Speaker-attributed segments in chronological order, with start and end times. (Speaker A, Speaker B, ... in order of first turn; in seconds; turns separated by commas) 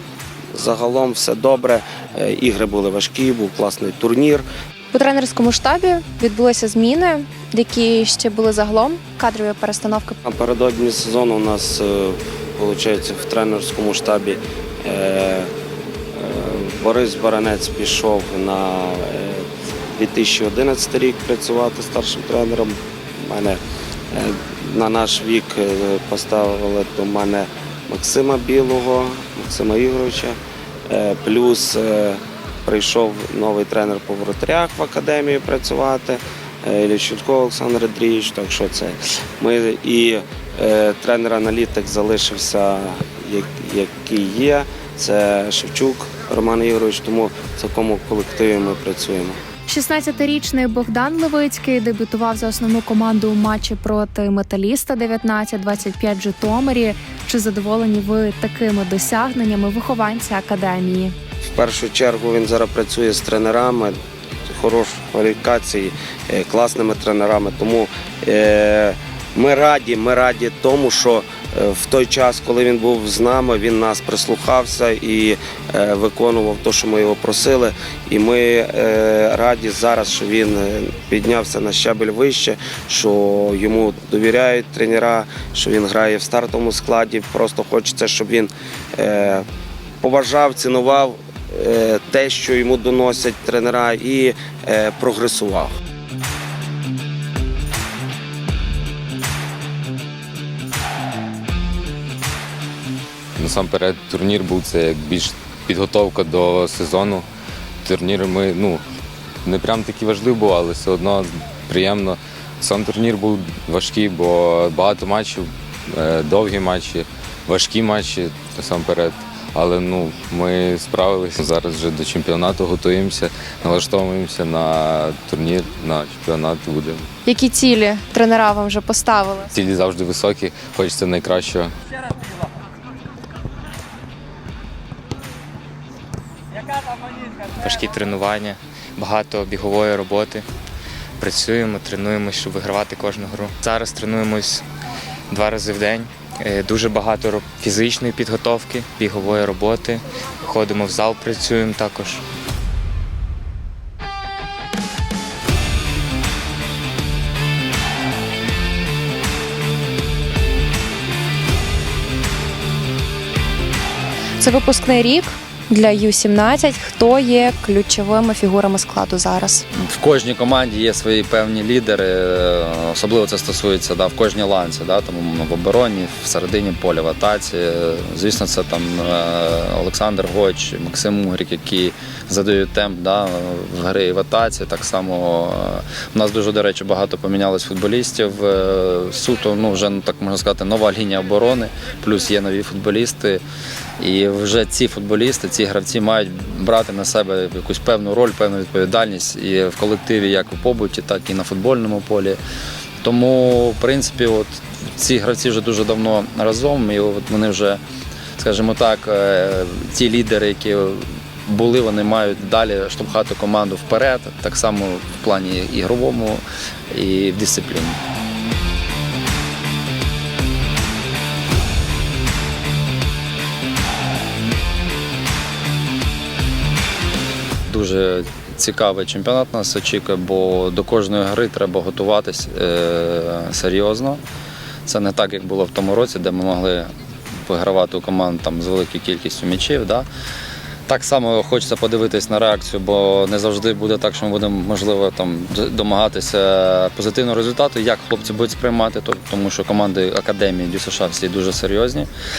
Speaker A: 0.5-4.5, Speaker B: 4.9-10.2, Speaker A: 10.2-15.5, Speaker A: 16.1-49.4, Speaker B: 49.7-61.1, Speaker A: 61.5-89.4, Speaker A: 90.0-95.8, Speaker C: 103.4-107.2, Speaker C: 107.8-108.8, Speaker C: 109.4-127.1, Speaker B: 127.2-129.4, Speaker C: 129.5-131.7, Speaker D: 137.6-140.4, Speaker D: 141.2-144.6, Speaker D: 145.3-152.2, Speaker B: 164.4-169.6, Speaker E: 169.8-193.4, Speaker E: 194.0-202.4, Speaker E: 203.0-207.8, Speaker E: 208.4-218.0, Speaker E: 227.7-234.2, Speaker E: 234.8-236.9, Speaker E: 237.4-240.1, Speaker E: 240.9-252.1